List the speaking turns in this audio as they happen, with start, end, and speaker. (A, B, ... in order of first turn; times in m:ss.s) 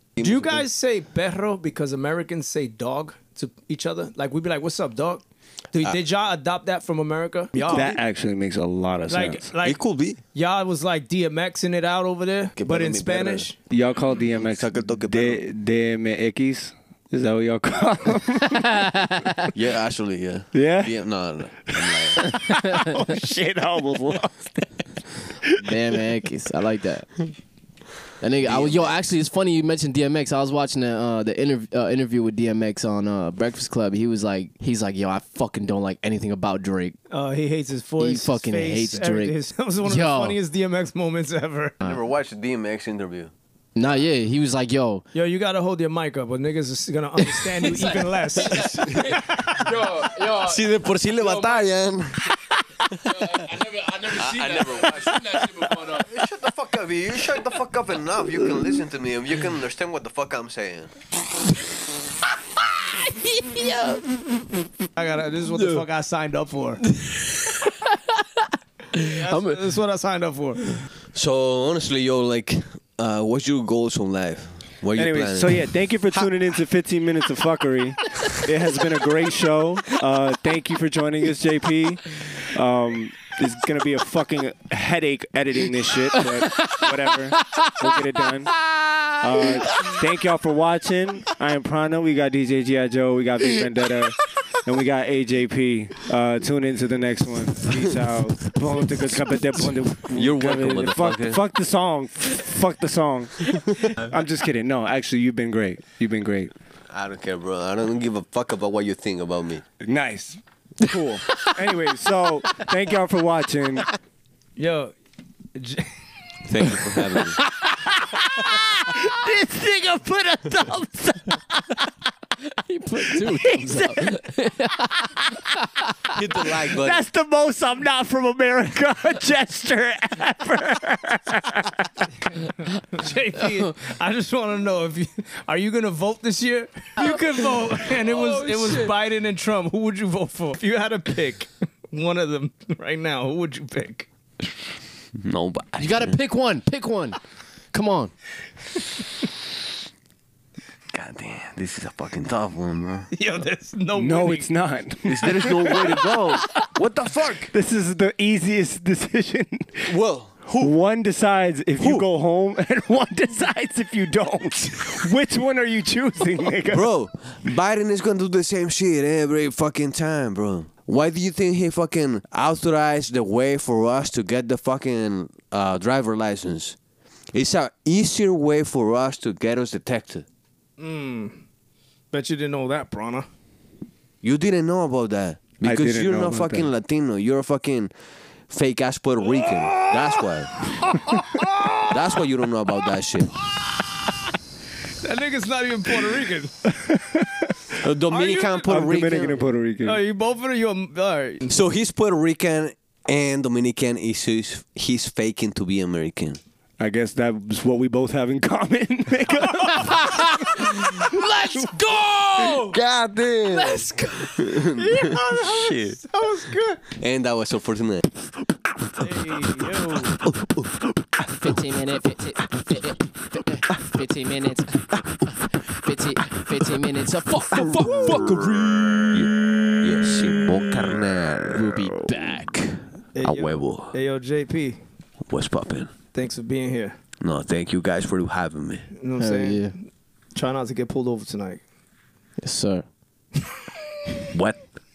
0:00.2-0:00.6 A
0:00.2-0:08.0 B
0:07.5-0:07.9 A
0:07.7-0:09.5 C
0:09.1-0:09.8 B
0:09.6-0:10.2 A
0:10.3-0:13.6 B
0:12.6-0:13.5 A
0:13.7-0:19.3 C
0:14.3-0:15.4 A
0:19.5-0:22.3 A
0:20.5-0:21.0 C
0:21.7-0:25.7 C
0:25.6-0:27.3 D
0:28.2-0:37.0 D
0:28.4-0:29.0 A
0:37.1-0:41.8 B
0:38.0-0:40.4 D
0:41.8-0:43.3 A
0:43.8-0:45.0 D
0:45.1-0:50.0 B
0:47.3-0:51.7 D
0:50.3-1:00.9 A
0:53.0-0:56.0 D
1:03.0-1:04.2 D
1:05.0-1:06.8 B
1:05.6-1:05.8 D
1:06.8-1:08.4 D
1:08.9-1:10.7 B
1:09.0-1:09.6 D
1:11.1-1:16.3 A
1:14.9-1:28.6 C
1:26.2-1:26.8 D
1:27.4-1:27.9 D
1:29.2-1:46.5 C
1:29.4-1:29.9 D
1:40.1-1:41.4 A
1:46.9-1:49.6 A
1:49.8-1:53.9 C
1:54.6-1:54.9 B
1:55.5-1:55.9 B
1:56.5-1:57.4 A
1:57.6-2:01.9 C
2:02.5-2:04.9 D
2:03.1-2:04.2 C
2:04.8-2:05.5 C
2:06.1-2:07.0 A
2:06.8-2:12.0 C
2:12.8-2:24.1 B
2:18.0-2:18.8 D
2:25.2-2:26.2 A
2:25.8-2:27.2 D
2:27.7-2:28.1 D
2:30.9-2:33.1 A
2:33.1-2:34.5 B
2:33.9-2:36.5 C
2:35.0-2:37.5 A
2:37.5-2:39.9 C
2:39.8-2:40.7 A
2:40.5-2:46.9 C
2:41.8-2:42.0 A
2:46.7-2:56.8 A
2:57.3-3:00.2 A
3:00.8-3:01.4 B
3:02.1-3:03.3 B
3:04.2-3:07.9 A
3:05.6-3:06.7 C
3:08.5-3:10.7 A
3:10.8-3:12.0 B
3:11.7-3:13.3 A
3:15.0-3:16.5 B
3:16.7-3:17.6 C
3:17.8-3:19.4 A
3:18.1-3:19.1 B
3:18.6-3:20.0 C
3:19.8-3:21.5 B
3:21.5-3:26.4 A
3:26.8-3:30.3 C
3:29.6-3:32.7 B
3:29.9-3:32.6 D
3:32.4-3:36.0 A
3:33.6-3:36.8 B
3:36.9-3:38.1 A
3:39.0-3:40.2 B
3:40.2-3:40.7 A
3:41.4-3:48.4 D
3:47.6-3:48.7 B
3:47.7-3:48.2 C
3:47.7-3:48.5 A
3:49.1-3:54.0 A
3:51.5-3:52.5 D
3:53.2-3:54.8 B
3:55.3-3:55.9 A
3:56.1-3:57.0 B
3:57.2-3:58.9 A
3:58.9-3:59.7 B
3:59.2-3:59.7 D
4:00.3-4:01.6 B
4:02.4-4:02.8 D
4:04.3-4:04.6 A